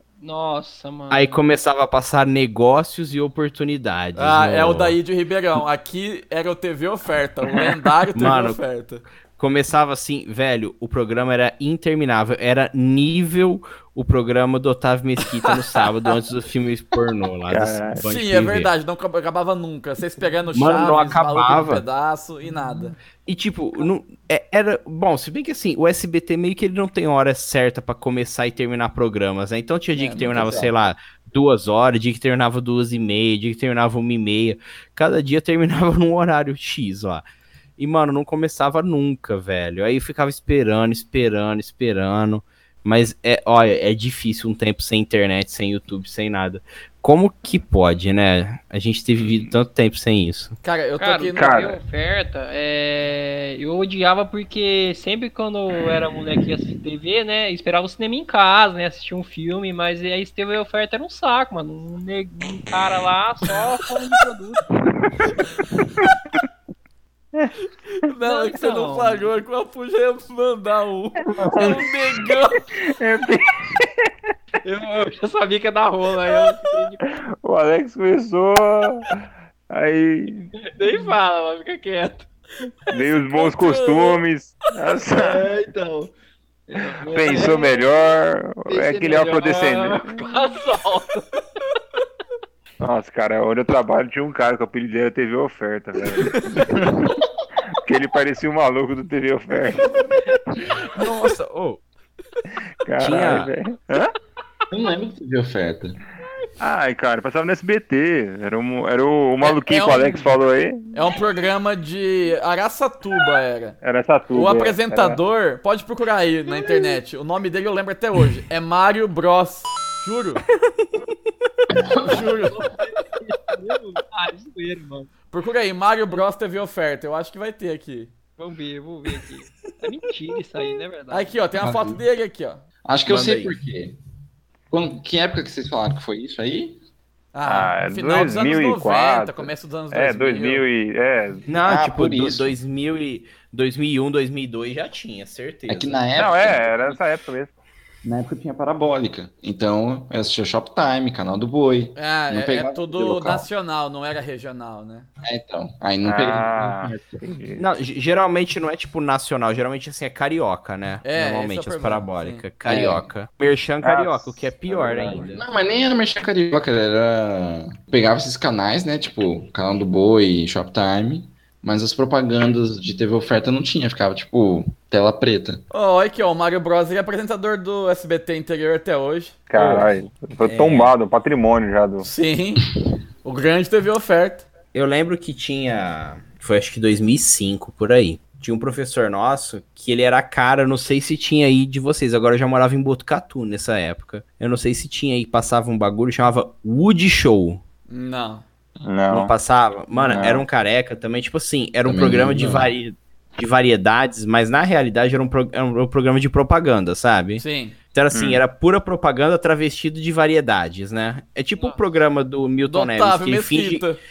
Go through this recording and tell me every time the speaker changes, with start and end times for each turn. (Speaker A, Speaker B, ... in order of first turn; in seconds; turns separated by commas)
Speaker A: 0.2-1.4, Speaker B: 1.1-5.0, Speaker C: 4.2-9.0, Speaker B: 8.1-8.6, Speaker B: 9.4-18.7, Speaker D: 17.5-18.0, Speaker C: 18.0-22.9, Speaker B: 20.5-21.8, Speaker B: 23.2-37.2, Speaker C: 29.9-30.4, Speaker E: 30.3-30.7, Speaker B: 37.8-50.5, Speaker C: 50.6-51.6, Speaker A: 51.0-64.7, Speaker D: 51.4-51.8, Speaker C: 67.9-72.6, Speaker A: 68.2-69.3, Speaker D: 71.2-71.9, Speaker A: 71.5-71.9, Speaker D: 72.8-74.1, Speaker A: 74.6-77.0, Speaker D: 77.0-79.1, Speaker D: 79.7-80.5, Speaker A: 80.6-82.3, Speaker D: 82.9-85.5, Speaker C: 83.4-84.2, Speaker A: 86.7-88.2, Speaker D: 87.1-90.1, Speaker A: 88.7-91.2, Speaker D: 92.8-97.2, Speaker C: 96.3-96.6, Speaker D: 97.7-100.0, Speaker B: 100.9-101.8, Speaker D: 102.8-104.1, Speaker B: 103.0-103.5, Speaker E: 104.7-106.0, Speaker D: 106.6-110.8, Speaker C: 109.4-110.3, Speaker C: 110.9-113.8, Speaker D: 113.8-115.2, Speaker C: 114.3-120.4, Speaker E: 121.7-122.4, Speaker C: 122.0-122.6, Speaker A: 122.5-125.1, Speaker C: 125.3-128.1, Speaker A: 128.4-131.3, Speaker C: 131.1-132.6, Speaker E: 131.6-132.0, Speaker E: 132.8-134.0, Speaker B: 133.1-133.6, Speaker E: 134.7-136.8, Speaker C: 137.3-140.6, Speaker D: 137.4-141.4, Speaker B: 141.5-146.0, Speaker E: 141.6-142.5, Speaker E: 145.7-147.0, Speaker D: 146.1-147.5, Speaker E: 148.0-153.5, Speaker C: 151.9-155.1, Speaker E: 155.2-157.2, Speaker D: 156.0-157.6, Speaker B: 157.6-165.4, Speaker C: 161.0-162.4, Speaker E: 162.6-163.1, Speaker D: 163.8-165.2, Speaker E: 165.1-175.6, Speaker C: 175.7-179.9, Speaker D: 179.5-182.1, Speaker B: 180.5-180.9, Speaker C: 182.0-182.6, Speaker C: 183.2-184.5, Speaker B: 184.7-197.6, Speaker C: 197.9-198.4, Speaker D: 198.8-199.3, Speaker B: 199.1-213.9, Speaker D: 200.0-200.4, Speaker E: 201.8-202.7, Speaker C: 207.4-207.7, Speaker D: 208.1-208.4, Speaker A: 211.6-211.8, Speaker C: 212.7-214.0